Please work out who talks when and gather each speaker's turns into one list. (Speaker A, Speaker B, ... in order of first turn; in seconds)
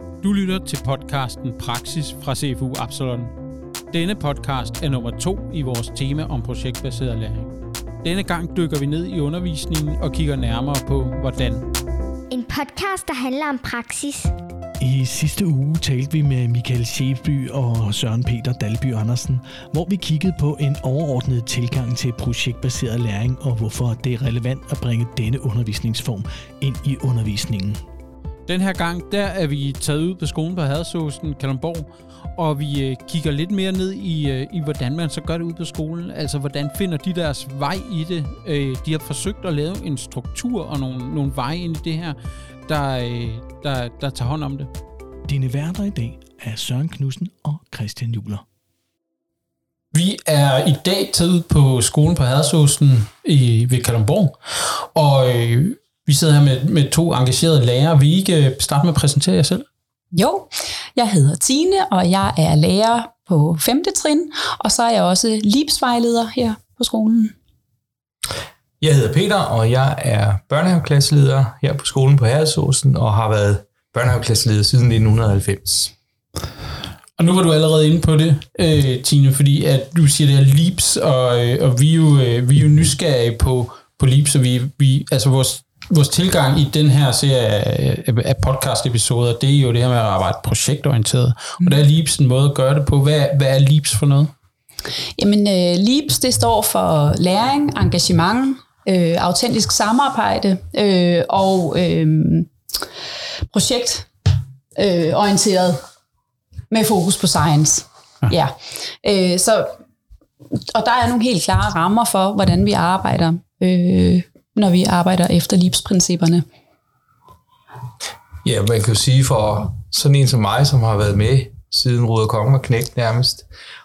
Speaker A: 0.2-3.3, 3.9-11.6, 28.5-44.7, 49.9-59.7, 77.2-94.3
Speaker B: 12.3-14.3
Speaker C: 14.8-27.8, 45.3-48.4
Speaker D: 60.1-67.3, 95.2-102.5, 103.5-104.1, 104.8-105.8, 106.7-109.7, 110.7-116.4
Speaker E: 68.8-75.9, 118.4-123.5